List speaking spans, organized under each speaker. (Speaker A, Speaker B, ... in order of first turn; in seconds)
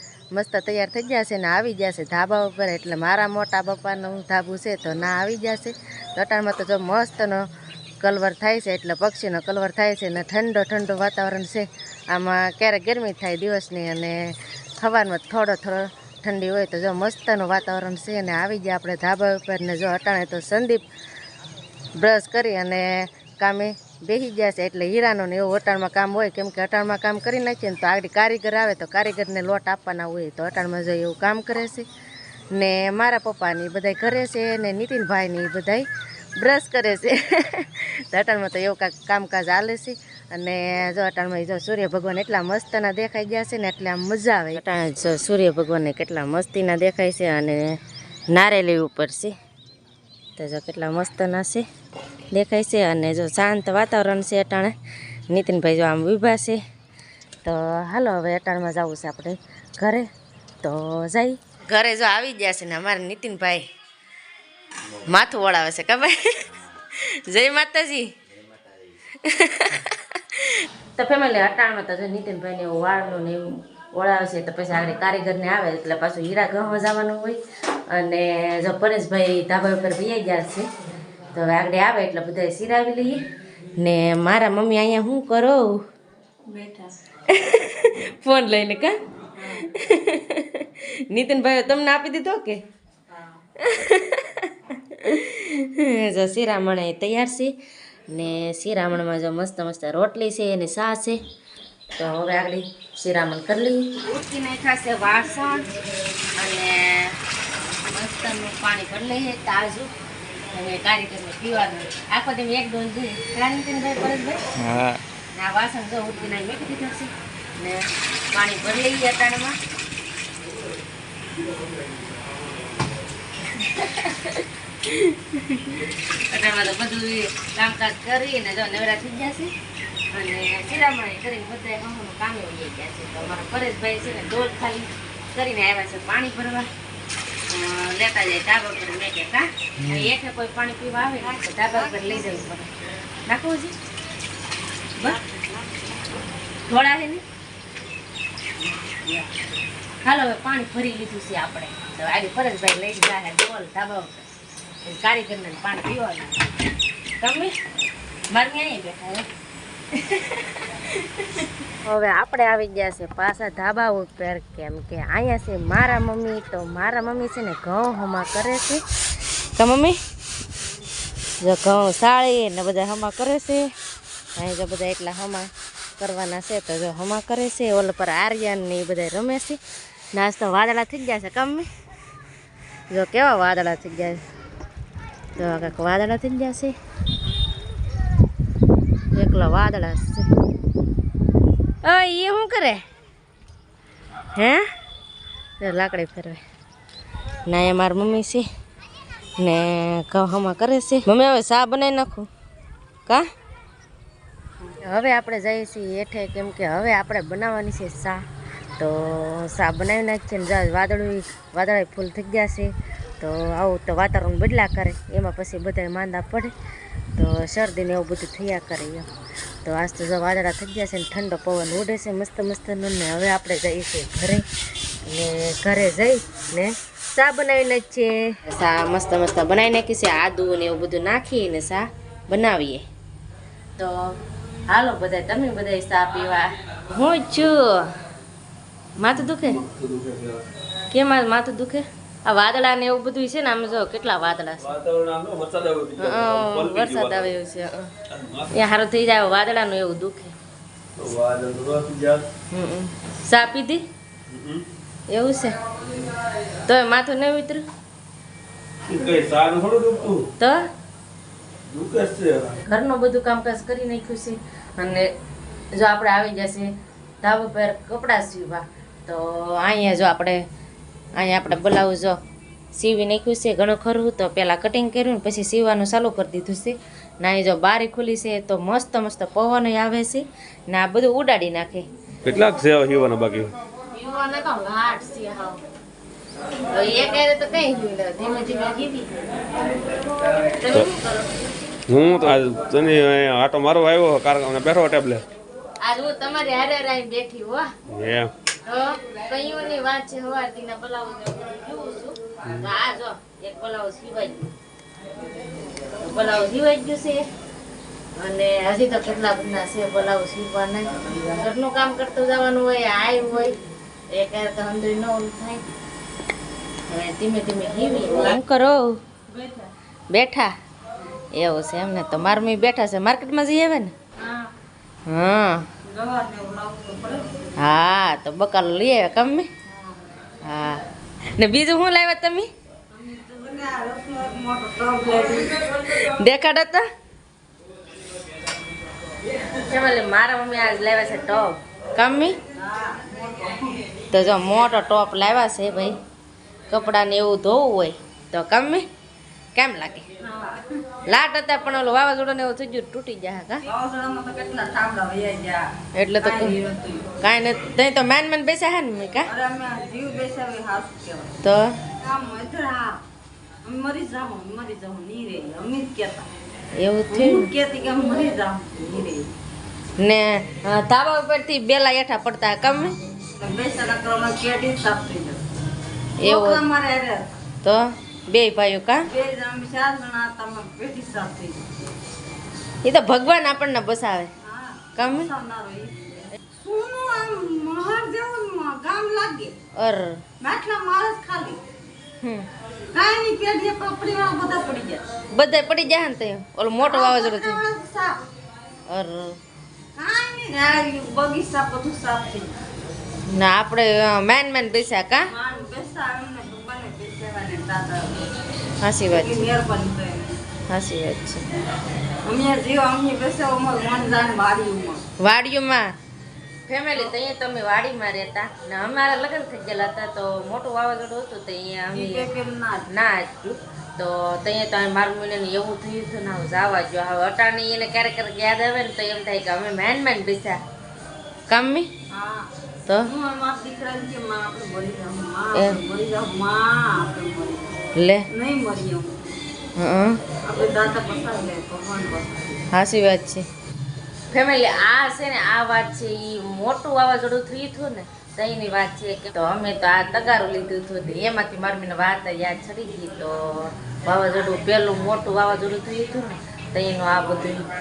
Speaker A: 0.3-7.5, 8.0-20.9, 22.0-31.9, 32.5-35.9, 36.4-47.8, 48.3-49.4, 50.4-51.7, 52.3-54.8, 55.3-56.6, 57.4-60.1, 60.6-63.7, 65.1-68.1, 69.2-80.7, 81.3-83.2, 83.8-85.8, 87.3-89.0, 89.7-92.6, 93.6-97.5, 98.1-101.2, 102.0-105.7, 106.4-107.2, 107.8-109.9, 110.5-114.4, 115.3-119.6, 123.5-129.5, 130.1-136.7, 137.5-142.7, 143.3-143.7, 146.7-147.2, 150.0-154.3, 154.8-156.4, 157.2-157.6, 158.3-159.3, 159.9-168.8, 169.6-170.0, 171.4-173.7, 174.4-179.6, 180.1-181.7, 182.9-184.2, 185.4-186.7, 189.1-190.3, 191.8-192.8, 194.4-194.6, 195.6-196.4, 197.5-198.4, 199.4-202.3, 204.8-208.2, 208.8-216.5, 217.2-219.1, 219.7-224.4, 225.1-232.8, 233.8-234.1, 234.7-237.9, 239.0-239.6, 240.9-244.7, 246.0-247.9, 248.5-250.3, 252.5-253.8, 255.1-255.6, 256.7-257.6, 262.6-265.1, 265.8-266.7, 267.2-270.4, 271.1-272.2, 272.7-281.9, 283.9-285.6, 286.7-289.1, 290.4-291.5, 295.8-297.7, 298.6-304.5, 306.0-307.2, 308.2-313.6, 314.1-315.7, 316.9-319.0, 320.1-320.5, 321.4-323.9, 325.1-325.6, 327.6-329.5, 330.4-330.8, 331.4-332.5, 335.8-336.9, 339.6-342.4, 344.1-345.9, 346.7-348.9, 349.6-350.1, 351.1-353.6, 355.9-356.6, 357.2-359.3, 361.4-361.8, 366.8-367.5, 370.0-373.0, 376.2-376.6, 377.6-379.0, 382.8-384.3, 385.0-385.3, 389.8-390.2, 392.2-392.5, 395.3-397.6, 398.9-399.4, 403.3-405.3, 408.8-409.5, 410.7-411.4, 415.2-415.9, 416.7-422.3, 422.9-430.6, 431.5-431.9, 437.9-438.3, 439.8-440.2, 442.7-443.5, 444.3-457.6
Speaker B: 86.5-86.9, 89.4-89.7, 93.1-93.4, 141.2-142.3, 145.0-145.9, 319.3-319.7, 324.2-324.5, 325.9-327.4, 329.7-330.0, 332.9-335.6, 342.6-343.8, 350.2-350.6, 353.7-355.7, 356.2-357.1, 359.3-361.4, 362.0-363.0, 363.6-366.3, 367.1-369.3, 373.4-375.4, 376.2-377.3, 379.1-381.7, 384.4-389.6, 390.4-391.6, 392.9-395.0, 396.8-398.2, 400.0-402.6, 405.3-408.2, 409.1-410.4, 412.2-415.0, 421.9-422.9, 432.1-432.5, 433.1-437.8, 438.3-439.2, 440.4-442.6
Speaker C: 121.5-122.3, 239.2-240.5, 244.6-247.3, 248.1-248.6, 251.0-252.2, 254.3-254.6, 258.9-260.3, 261.7-262.6, 282.2-283.5, 291.9-295.2, 297.9-298.3